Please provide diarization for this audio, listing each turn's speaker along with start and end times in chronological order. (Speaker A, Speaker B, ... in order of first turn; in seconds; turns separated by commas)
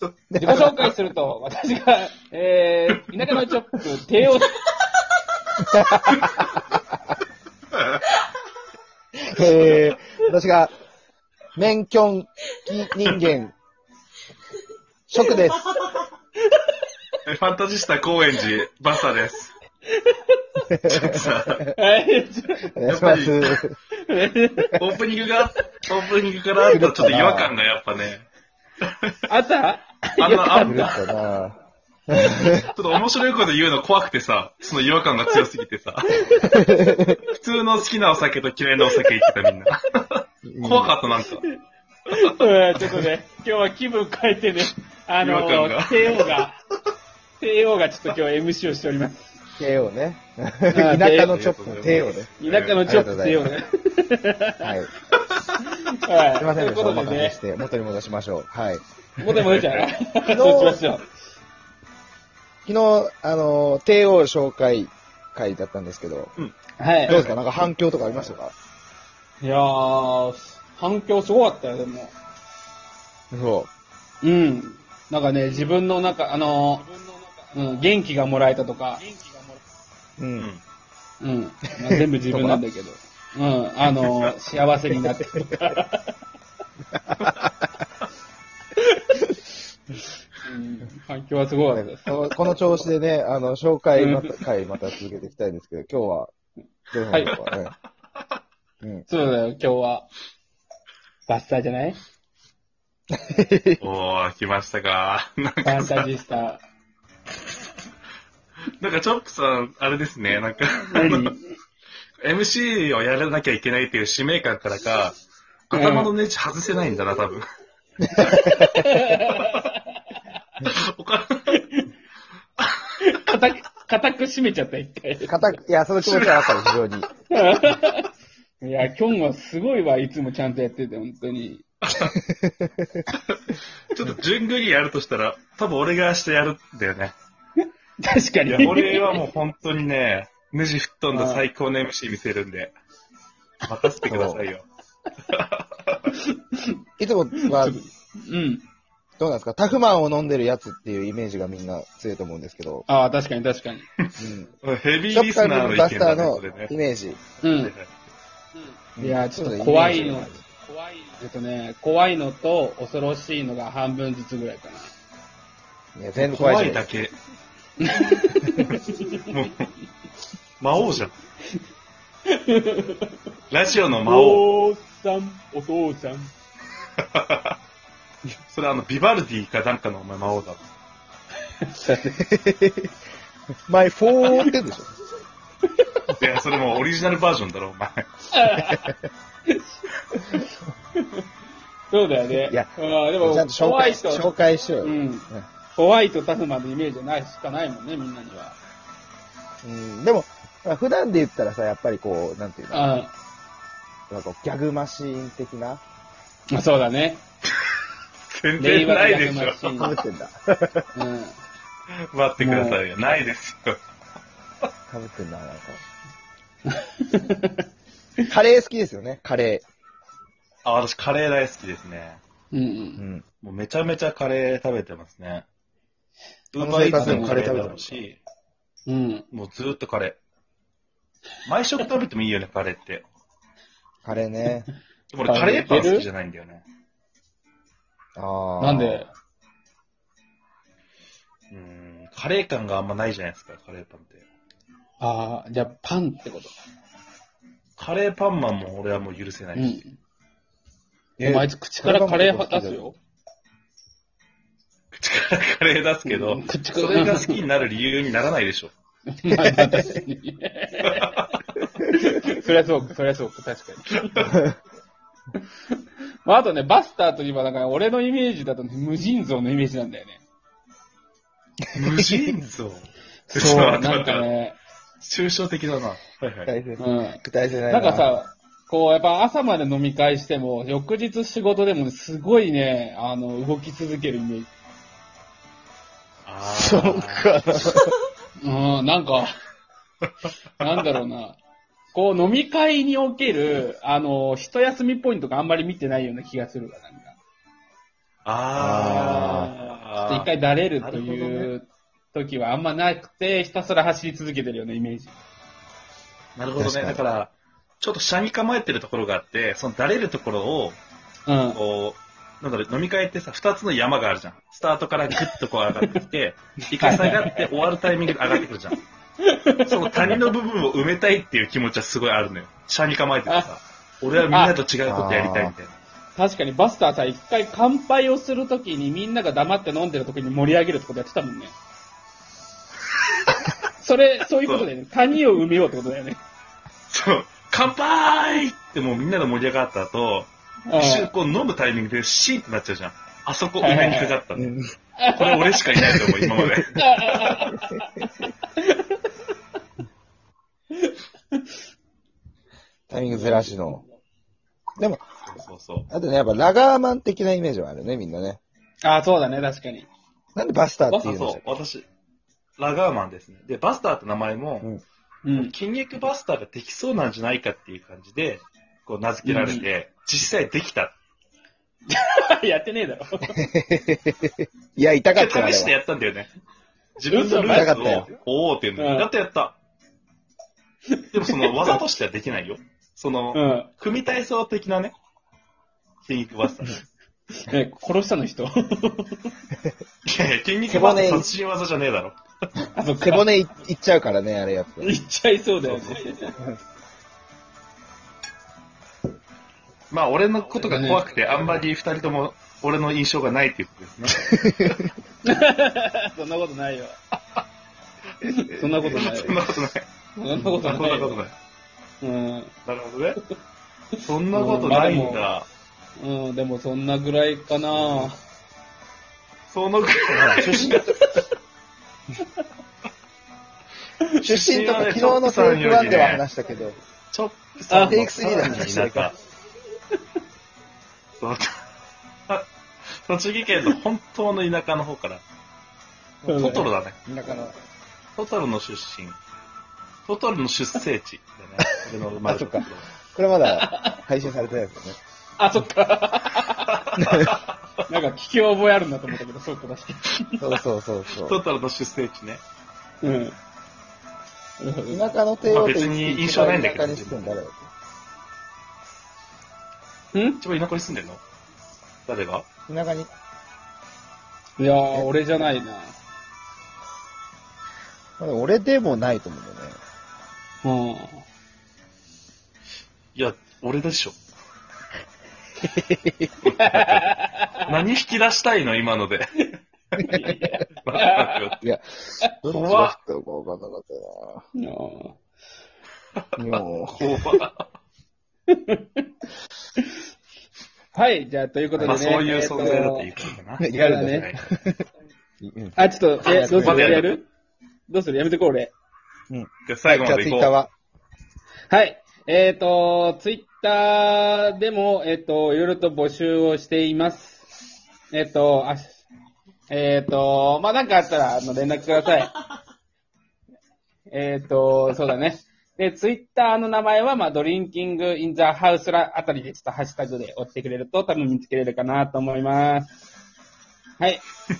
Speaker A: 0.3-0.9, Speaker B: 0.4-4.6, Speaker A: 5.7-6.6, Speaker B: 6.0-6.3, Speaker A: 9.2-10.7, Speaker A: 11.6-13.5, Speaker A: 15.1-15.8, Speaker B: 15.9-16.8, Speaker C: 17.2-19.5, Speaker B: 19.9-20.6, Speaker A: 20.6-21.8, Speaker C: 20.9-21.6, Speaker B: 21.7-22.7, Speaker A: 22.7-23.7, Speaker C: 22.9-23.6, Speaker B: 24.0-24.9, Speaker C: 24.8-28.3, Speaker A: 26.7-27.5, Speaker C: 28.9-29.1, Speaker B: 29.3-31.0, Speaker C: 30.2-30.9, Speaker A: 30.6-31.6, Speaker A: 32.1-32.7, Speaker C: 32.7-36.3, Speaker B: 36.1-37.1, Speaker A: 36.5-37.2, Speaker C: 37.3-41.4, Speaker B: 38.9-39.1, Speaker A: 40.5-41.0, Speaker C: 42.1-43.1, Speaker B: 42.1-46.6, Speaker C: 45.2-46.4, Speaker B: 47.4-49.3, Speaker A: 49.6-53.5, Speaker B: 50.7-51.4, Speaker C: 51.2-52.8, Speaker B: 52.4-54.7, Speaker A: 54.6-55.0, Speaker B: 55.6-57.4, Speaker A: 56.4-58.8, Speaker B: 59.2-61.1, Speaker C: 59.4-59.9, Speaker A: 60.2-60.8, Speaker A: 62.6-66.3, Speaker B: 66.8-67.2, Speaker C: 67.1-67.3, Speaker A: 67.1-68.5, Speaker B: 69.4-72.1, Speaker A: 73.3-73.7, Speaker B: 74.2-76.9, Speaker B: 77.5-79.4, Speaker A: 80.2-80.5, Speaker B: 81.2-86.1, Speaker A: 82.1-82.6, Speaker A: 87.0-87.3, Speaker C: 87.2-87.5, Speaker B: 88.8-89.2, Speaker B: 90.4-92.1, Speaker A: 91.7-96.3, Speaker B: 94.0-94.3, Speaker A: 96.9-97.7, Speaker C: 97.2-97.7, Speaker A: 98.8-99.1, Speaker B: 99.1-100.1, Speaker B: 101.3-102.0, Speaker A: 103.1-103.8, Speaker C: 103.8-106.0, Speaker B: 105.6-106.6, Speaker C: 108.8-111.3, Speaker B: 110.8-111.6, Speaker C: 112.2-115.2, Speaker C: 115.7-117.4, Speaker B: 115.7-116.1, Speaker A: 118.0-118.9, Speaker B: 118.2-120.2, Speaker C: 119.2-119.7, Speaker C: 120.6-121.6, Speaker B: 121.5-121.9, Speaker B: 123.0-125.5, Speaker A: 125.2-127.1, Speaker C: 126.0-126.5, Speaker B: 127.3-128.1, Speaker B: 128.6-131.6, Speaker C: 131.8-132.1, Speaker A: 132.2-133.1, Speaker C: 133.1-137.1, Speaker B: 138.0-139.2, Speaker C: 138.5-142.7, Speaker B: 141.1-141.4, Speaker C: 143.6-144.6, Speaker A: 144.0-144.4, Speaker C: 145.3-146.1, Speaker B: 146.1-146.8, Speaker A: 147.0-147.8, Speaker B: 147.3-148.6, Speaker A: 149.2-152.8, Speaker B: 152.9-153.8, Speaker C: 154.1-156.7, Speaker A: 154.2-154.5, Speaker A: 155.1-157.2, Speaker B: 157.4-157.7, Speaker C: 157.4-157.9, Speaker B: 158.6-164.9, Speaker A: 158.9-160.4, Speaker A: 165.9-166.9, Speaker C: 166.2-167.1, Speaker B: 167.8-169.3, Speaker C: 169.2-169.7, Speaker C: 170.6-171.1, Speaker B: 172.3-173.1, Speaker C: 173.5-174.4, Speaker B: 174.0-176.3, Speaker C: 177.1-177.5, Speaker C: 178.5-180.7, Speaker B: 181.6-182.2, Speaker A: 182.2-182.9, Speaker A: 183.7-184.9, Speaker B: 184.2-184.5, Speaker B: 185.8-186.0, Speaker C: 186.2-188.0, Speaker B: 188.3-188.9, Speaker B: 189.5-190.4, Speaker B: 191.0-191.2, Speaker B: 191.9-194.3, Speaker A: 192.5-195.4, Speaker B: 194.8-198.6, Speaker A: 199.6-202.9, Speaker B: 202.7-203.1, Speaker A: 204.1-205.8, Speaker B: 206.5-207.2, Speaker C: 208.3-210.0, Speaker B: 208.6-210.0, Speaker A: 209.8-210.8, Speaker B: 210.9-211.4, Speaker C: 212.1-213.8, Speaker B: 212.4-212.8, Speaker A: 214.9-215.8, Speaker B: 216.7-217.6, Speaker A: 218.3-219.6, Speaker C: 220.6-222.2, Speaker B: 222.5-223.0, Speaker A: 223.0-223.2, Speaker C: 223.4-225.4, Speaker C: 226.5-228.2, Speaker A: 226.6-227.9, Speaker B: 227.0-227.4, Speaker B: 228.9-229.2, Speaker C: 229.3-230.2, Speaker C: 231.4-233.0, Speaker A: 234.0-234.7, Speaker C: 235.1-236.6, Speaker B: 235.2-236.1, Speaker A: 238.2-239.1, Speaker B: 238.6-239.1, Speaker C: 241.5-244.2, Speaker B: 245.0-246.5, Speaker C: 247.8-249.8, Speaker B: 249.5-250.0, Speaker A: 251.2-252.8, Speaker B: 251.2-253.0, Speaker C: 255.0-258.7, Speaker B: 256.1-257.4, Speaker B: 259.1-261.3, Speaker A: 259.6-259.9, Speaker C: 260.8-261.1, Speaker B: 261.8-264.4, Speaker B: 266.2-270.2, Speaker C: 271.7-274.2, Speaker A: 271.9-272.3, Speaker B: 273.3-274.6, Speaker A: 273.4-273.8, Speaker C: 275.0-276.5, Speaker A: 276.4-278.1, Speaker B: 276.8-284.5, Speaker C: 286.2-287.3, Speaker A: 286.4-287.9, Speaker B: 288.4-289.4, Speaker B: 290.6-291.4, Speaker B: 291.9-297.1, Speaker C: 298.2-301.5, Speaker A: 298.6-299.5, Speaker B: 298.8-305.1, Speaker C: 306.4-310.8, Speaker A: 306.6-307.0, Speaker B: 311.3-311.6, Speaker C: 311.5-318.8, Speaker B: 316.8-318.4, Speaker B: 319.2-320.2, Speaker C: 319.6-325.8, Speaker B: 324.2-324.6, Speaker A: 324.9-325.5, Speaker B: 326.1-331.5, Speaker B: 333.8-336.2, Speaker C: 334.4-334.7, Speaker C: 336.9-344.5, Speaker B: 340.7-341.1, Speaker B: 343.6-344.2, Speaker A: 344.3-344.7, Speaker B: 345.0-345.6, Speaker C: 345.1-347.5, Speaker A: 345.8-346.6, Speaker B: 346.8-347.8, Speaker A: 347.6-348.0, Speaker B: 348.5-349.0, Speaker B: 350.7-351.4, Speaker A: 352.9-353.8, Speaker B: 353.1-353.5, Speaker A: 354.8-355.0, Speaker C: 355.3-355.9, Speaker A: 355.9-358.4, Speaker B: 358.8-359.9, Speaker A: 360.3-361.4, Speaker C: 360.9-361.8, Speaker C: 362.6-364.7, Speaker B: 365.2-365.5, Speaker C: 365.3-370.9, Speaker B: 369.2-369.7, Speaker B: 371.9-373.4, Speaker A: 373.4-375.7, Speaker C: 375.1-376.3, Speaker C: 377.0-379.6, Speaker B: 377.1-377.8, Speaker A: 377.5-378.1, Speaker B: 378.8-379.1, Speaker B: 380.9-381.8, Speaker C: 381.1-384.9, Speaker B: 383.3-383.7, Speaker C: 386.1-386.8, Speaker B: 387.3-389.3, Speaker C: 390.1-392.1, Speaker A: 390.6-391.3, Speaker B: 392.7-393.2, Speaker A: 393.0-395.0, Speaker B: 394.8-396.4, Speaker C: 395.6-396.1, Speaker C: 399.9-404.8, Speaker B: 400.6-401.2, Speaker A: 404.2-404.9, Speaker B: 405.2-406.9, Speaker B: 408.2-409.5, Speaker C: 408.5-409.9, Speaker B: 410.1-411.2, Speaker C: 410.4-411.3, Speaker B: 412.0-412.5, Speaker C: 412.6-413.2, Speaker C: 414.0-415.4, Speaker B: 414.3-415.3, Speaker B: 416.0-418.1, Speaker C: 419.5-421.2, Speaker A: 420.1-420.9, Speaker C: 424.2-426.2, Speaker A: 424.2-426.8, Speaker C: 427.1-429.2, Speaker B: 427.7-428.6, Speaker A: 427.8-429.1, Speaker C: 431.2-431.5, Speaker C: 433.1-435.2, Speaker B: 436.2-436.7, Speaker C: 436.2-436.9, Speaker A: 437.1-437.5, Speaker C: 438.2-439.2, Speaker C: 440.1-442.9, Speaker A: 442.2-445.0, Speaker B: 443.5-444.0, Speaker B: 445.4-446.8, Speaker C: 446.7-447.5, Speaker A: 447.0-447.4, Speaker B: 447.9-450.4, Speaker A: 450.4-451.4, Speaker C: 451.1-452.4, Speaker B: 453.0-453.3, Speaker B: 454.6-455.1, Speaker A: 454.9-457.7, Speaker C: 455.4-457.2, Speaker B: 460.1-460.4, Speaker C: 460.4-461.2, Speaker C: 462.1-462.4, Speaker A: 462.7-463.1, Speaker B: 464.6-465.9, Speaker A: 468.2-469.8, Speaker B: 470.6-471.2, Speaker C: 473.1-474.2, Speaker A: 475.6-476.3, Speaker C: 476.4-477.1, Speaker B: 476.6-477.7, Speaker C: 477.6-479.5, Speaker B: 480.1-481.4, Speaker A: 480.1-480.4, Speaker C: 480.8-481.6, Speaker A: 481.6-484.4, Speaker C: 482.5-482.9, Speaker B: 484.6-485.2, Speaker A: 486.4-487.3, Speaker C: 487.0-487.6, Speaker B: 488.5-489.1, Speaker B: 490.9-493.1, Speaker A: 491.7-492.0, Speaker C: 491.8-494.4, Speaker A: 493.6-494.8, Speaker B: 493.7-494.3, Speaker A: 495.4-497.0, Speaker B: 495.8-497.3, Speaker C: 496.6-497.2, Speaker B: 497.9-498.7, Speaker A: 499.3-500.7, Speaker C: 499.6-500.5, Speaker B: 501.7-507.5, Speaker B: 508.1-509.1, Speaker B: 509.7-512.3, Speaker B: 514.1-522.9